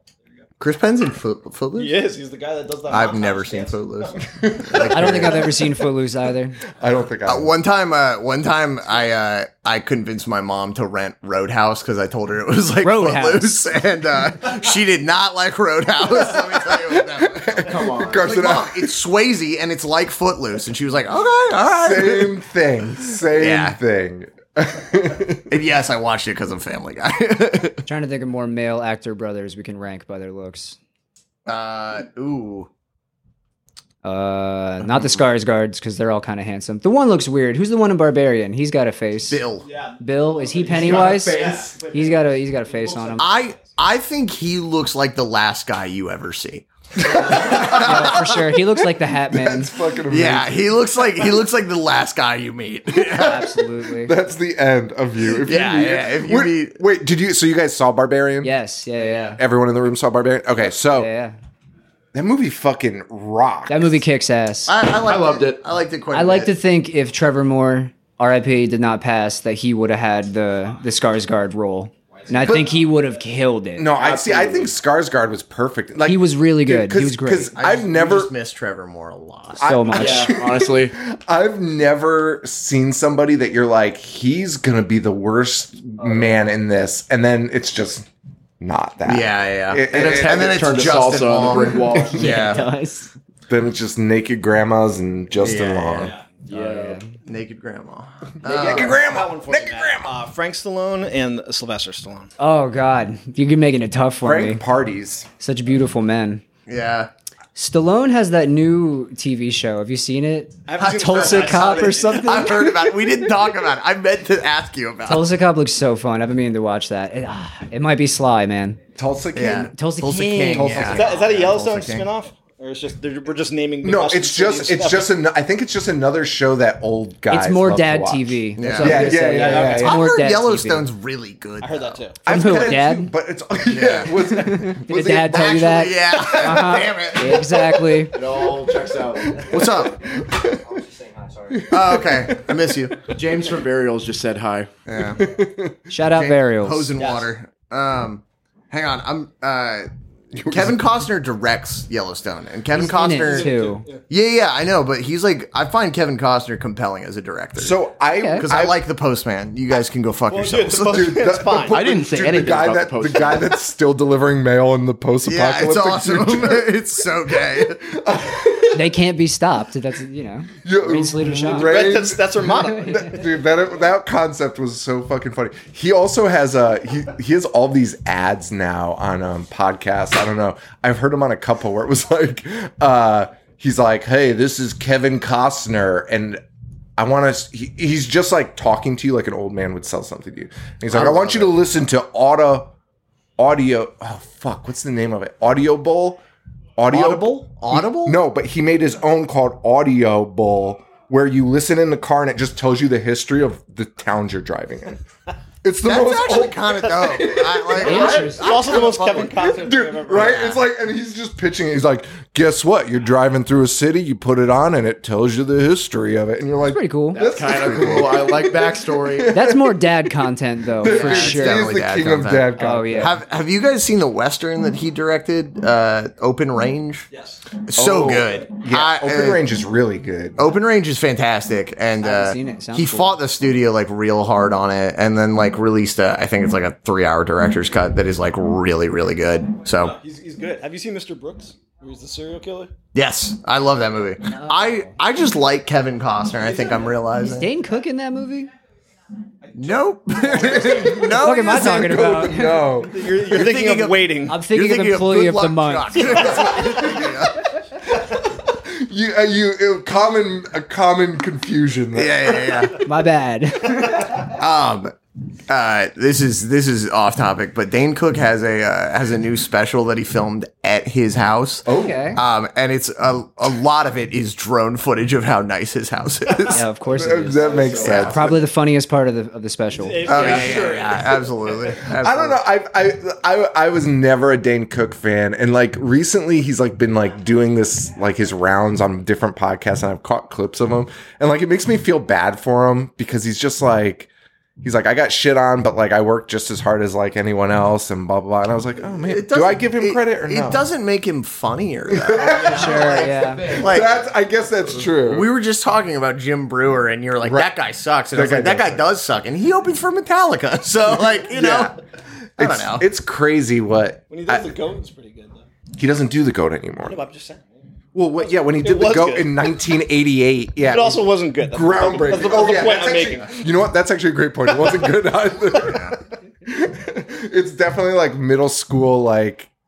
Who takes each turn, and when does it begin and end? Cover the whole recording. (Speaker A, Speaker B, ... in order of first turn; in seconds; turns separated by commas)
Speaker A: 0.2-0.5, Speaker B: 0.6-2.0, Speaker A: 1.8-4.2, Speaker B: 2.9-5.5, Speaker C: 4.4-5.6, Speaker D: 4.8-6.6, Speaker C: 6.8-7.5, Speaker B: 7.2-22.4, Speaker D: 12.8-13.7, Speaker C: 16.6-18.9, Speaker E: 17.6-18.3, Speaker C: 21.8-25.5, Speaker B: 23.3-23.8, Speaker B: 25.5-27.8, Speaker D: 27.9-30.8, Speaker B: 31.5-32.7, Speaker D: 34.0-39.4, Speaker B: 39.3-39.7, Speaker A: 39.6-43.8, Speaker D: 40.0-43.3, Speaker E: 40.7-41.7, Speaker B: 43.2-48.4, Speaker C: 47.0-48.2, Speaker D: 47.5-49.7, Speaker C: 49.1-50.6, Speaker B: 50.1-53.5, Speaker D: 53.1-54.1, Speaker C: 54.0-58.6, Speaker B: 55.2-56.8, Speaker D: 58.4-59.4, Speaker C: 59.4-61.1, Speaker D: 60.9-61.4, Speaker C: 62.1-64.0, Speaker D: 63.7-64.7, Speaker B: 64.7-66.6, Speaker E: 65.0-65.6, Speaker D: 66.1-73.9, Speaker E: 72.3-72.6, Speaker C: 73.8-78.3, Speaker E: 73.9-74.7, Speaker D: 76.0-77.5, Speaker B: 77.5-79.7, Speaker C: 79.6-88.1, Speaker D: 79.6-80.3, Speaker E: 79.9-80.9, Speaker C: 88.6-92.2, Speaker B: 89.0-92.7, Speaker E: 89.9-92.2, Speaker D: 92.1-93.1, Speaker C: 93.5-96.1, Speaker B: 95.4-96.1, Speaker E: 96.5-97.0, Speaker D: 96.5-97.0, Speaker B: 97.2-99.0, Speaker C: 98.4-100.1, Speaker A: 98.5-102.3, Speaker D: 102.4-104.6, Speaker C: 104.2-105.3, Speaker D: 105.4-106.4, Speaker B: 106.7-107.1, Speaker D: 107.5-112.8, Speaker A: 110.7-112.5, Speaker B: 110.8-115.3, Speaker D: 115.1-118.8, Speaker C: 119.0-119.7, Speaker B: 119.3-122.1, Speaker D: 119.5-121.0, Speaker C: 120.5-121.3, Speaker A: 120.9-125.2, Speaker C: 123.8-129.9, Speaker D: 127.3-130.9, Speaker B: 128.6-132.0, Speaker A: 129.1-130.1, Speaker A: 131.6-132.2, Speaker C: 132.2-135.6, Speaker D: 132.3-133.1, Speaker B: 133.7-137.9, Speaker D: 134.2-138.2, Speaker E: 138.1-139.5, Speaker C: 138.4-140.8, Speaker B: 139.5-140.0, Speaker E: 140.8-141.6, Speaker C: 141.5-142.8, Speaker B: 141.7-143.1, Speaker E: 143.1-144.7, Speaker B: 144.9-145.2, Speaker C: 145.1-145.8, Speaker D: 145.9-146.9, Speaker B: 146.1-149.9, Speaker A: 147.0-147.3, Speaker C: 150.4-150.8, Speaker B: 150.4-153.6, Speaker D: 152.7-153.8, Speaker A: 153.2-154.0, Speaker B: 154.1-157.8, Speaker C: 157.6-158.8, Speaker D: 158.2-158.5, Speaker B: 158.4-161.2, Speaker A: 160.3-161.9, Speaker C: 160.9-168.9, Speaker E: 161.7-163.6, Speaker B: 165.2-167.9, Speaker D: 168.7-171.9, Speaker C: 170.6-186.4, Speaker A: 171.5-173.2, Speaker D: 172.7-173.2, Speaker C: 187.0-192.7, Speaker B: 190.9-191.6, Speaker C: 193.4-196.2, Speaker C: 196.8-205.0, Speaker B: 196.9-198.2, Speaker C: 205.6-219.8, Speaker B: 205.8-209.4, Speaker D: 207.8-208.5, Speaker A: 208.0-210.6, Speaker B: 210.2-210.5, Speaker D: 216.7-217.2, Speaker E: 217.1-219.4, Speaker D: 219.3-221.7, Speaker C: 220.8-223.2, Speaker B: 220.8-227.1, Speaker D: 222.6-223.2, Speaker A: 227.1-227.4, Speaker B: 227.7-229.4, Speaker C: 227.8-230.4, Speaker B: 230.4-240.0, Speaker D: 232.0-233.2, Speaker A: 239.8-242.7, Speaker B: 242.9-247.5, Speaker D: 244.3-244.9, Speaker A: 246.4-247.0, Speaker D: 247.2-248.5, Speaker A: 249.4-250.8, Speaker B: 249.6-252.1, Speaker C: 250.2-253.4, Speaker D: 251.1-252.8, Speaker A: 252.9-254.4, Speaker B: 253.2-257.5, Speaker D: 254.3-256.3, Speaker C: 256.1-257.1, Speaker C: 257.9-262.7, Speaker B: 261.9-262.8, Speaker D: 262.8-264.3, Speaker B: 264.1-264.9, Speaker B: 265.5-276.6, Speaker C: 271.7-272.1, Speaker D: 271.7-272.2, Speaker D: 276.5-280.1, Speaker C: 276.9-278.4, Speaker E: 277.4-278.2, Speaker A: 279.8-281.8, Speaker B: 280.1-282.4, Speaker E: 280.2-280.8, Speaker C: 282.0-294.1, Speaker C: 294.6-300.6, Speaker B: 299.0-304.0, Speaker C: 301.9-305.3, Speaker E: 302.2-303.9, Speaker D: 302.5-303.5, Speaker B: 304.8-311.8, Speaker C: 307.2-307.5, Speaker C: 308.1-308.9, Speaker C: 311.0-311.8, Speaker C: 312.4-314.6, Speaker B: 312.4-312.9, Speaker A: 314.1-315.5, Speaker C: 315.8-317.0, Speaker A: 316.9-317.4, Speaker C: 317.9-329.5, Speaker A: 318.2-319.4, Speaker A: 320.6-323.4, Speaker A: 324.5-324.9, Speaker B: 325.6-326.0